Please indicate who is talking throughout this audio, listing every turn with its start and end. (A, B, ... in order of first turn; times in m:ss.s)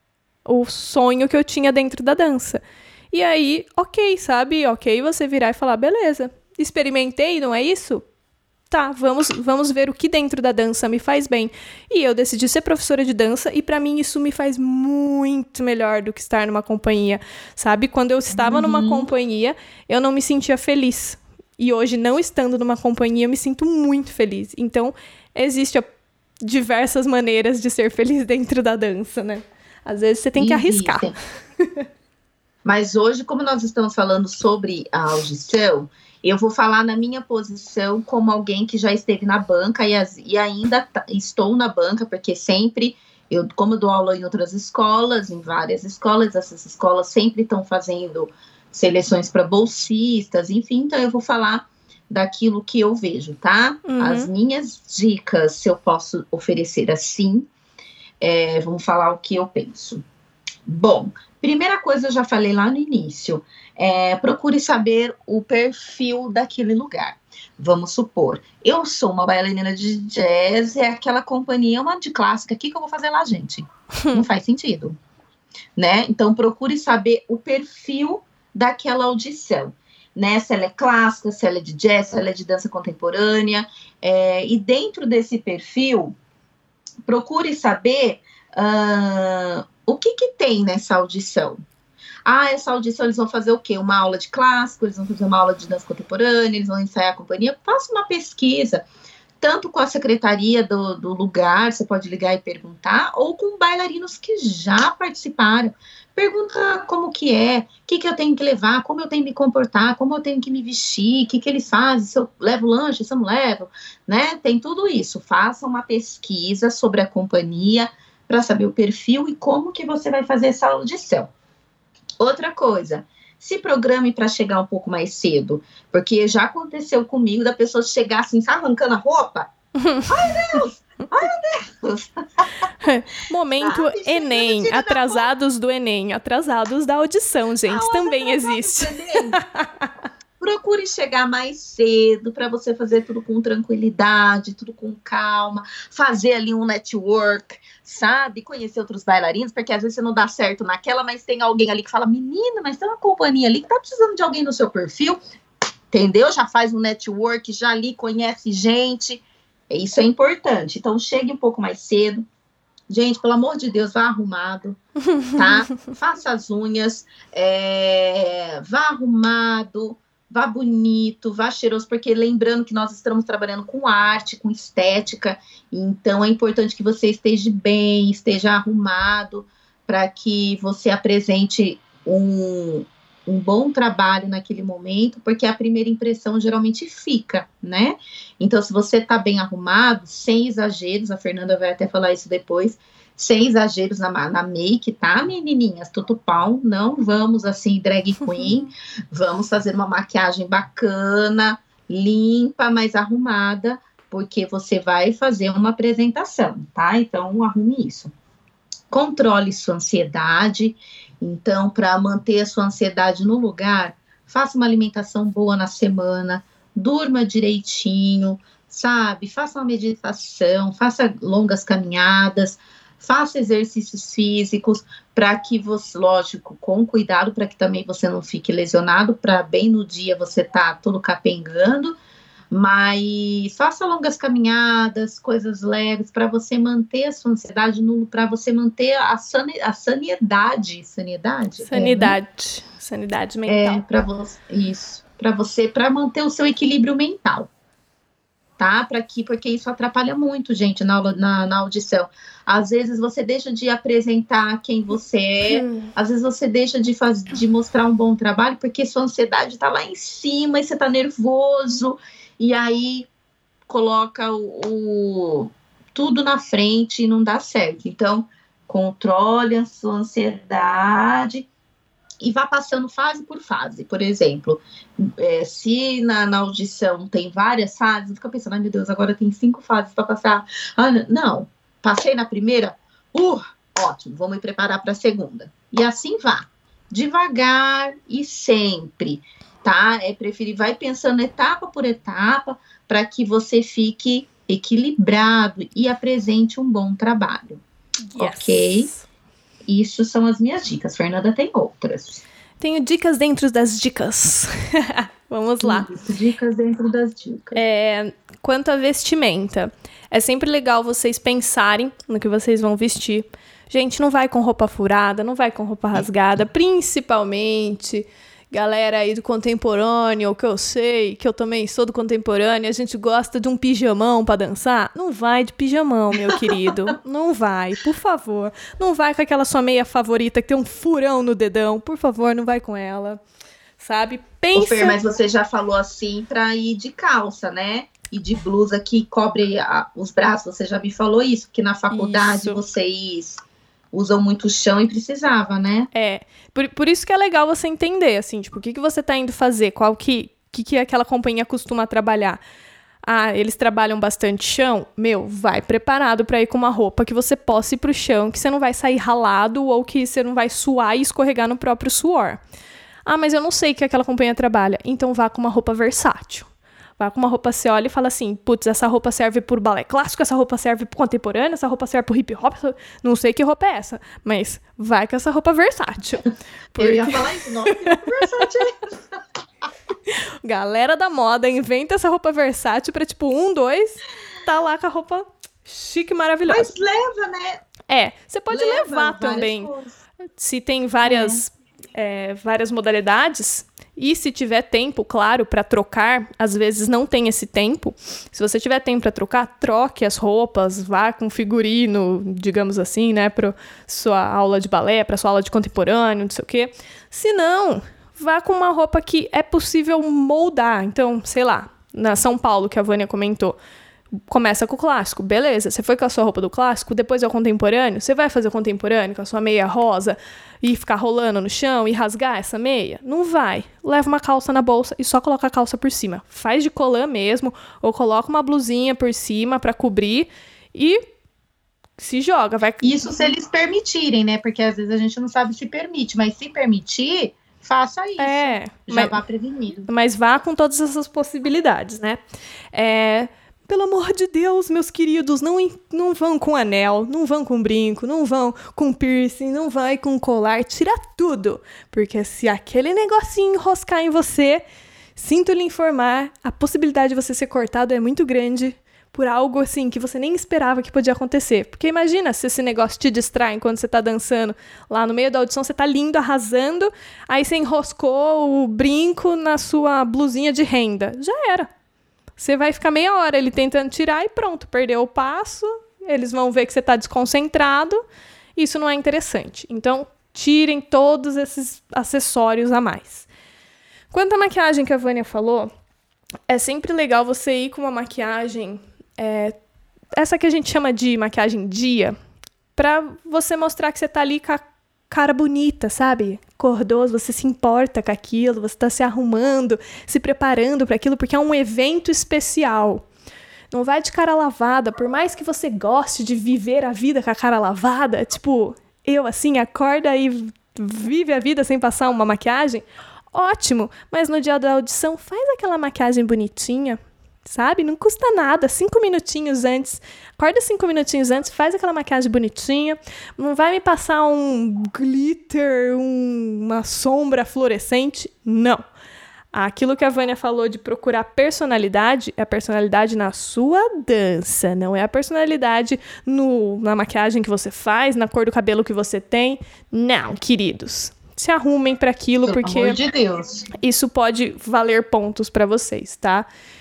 0:00.4-0:02.6 A
0:03.1-0:08.0 A
0:08.7-0:25.8 A
0:18.3-0:19.1 B
0:26.4-0:31.1 A
0:30.4-0:31.2 B
0:32.6-0:57.5 B
0:53.8-0:54.3 A
0:58.2-1:00.0 B
1:00.6-1:14.9 B
1:15.8-1:26.2 B
1:27.0-1:31.6 B
1:32.2-1:38.8 B
1:39.4-2:01.3 B
2:02.2-2:09.5 B
2:09.8-2:10.1 A
2:10.0-2:12.4 B
2:12.8-2:19.9 A
2:13.6-2:15.3 B
2:17.7-2:19.4 B
2:20.4-2:35.2 B
2:35.9-2:42.2 B
2:42.9-2:44.8 B
2:45.2-2:45.6 A
2:45.3-3:28.1 B
3:28.9-3:52.0 B
3:52.5-4:02.2 B
4:01.6-4:03.8 A
4:03.5-4:07.5 B
4:08.6-4:23.1 B
4:15.5-4:15.9 A
4:23.7-4:31.5 B
4:32.2-4:57.6 B
4:58.1-4:59.0 A
4:58.2-4:58.9 B
4:59.6-5:02.2 B
5:02.6-5:05.9 A
5:05.6-5:07.6 B
5:07.5-5:33.2 A
5:33.8-5:35.0 A
5:34.5-5:45.9 B
5:41.9-5:42.6 A
5:45.9-5:52.4 A
5:53.0-6:02.4 A
6:03.0-6:18.0 A
6:16.8-6:19.2 B
6:20.1-6:26.7 A
6:26.5-6:27.6 B
6:27.9-6:29.7 A
6:28.5-6:29.9 B
6:30.4-6:53.6 A
6:31.0-6:31.4 B
6:54.3-7:11.0 A
7:12.0-7:13.1 A
7:12.8-7:19.9 B
7:18.2-7:19.2 A
7:19.9-7:22.2 A
7:22.7-7:34.6 A
7:35.2-7:51.7 A
7:52.4-7:58.0 A
7:58.6-8:03.3 A
8:04.1-8:05.7 A
8:06.5-8:09.6 A
8:10.2-8:12.1 A
8:12.8-8:23.0 A
8:23.7-8:48.8 A
8:49.5-9:03.0 A
9:02.4-9:03.7 B
9:03.8-9:06.5 A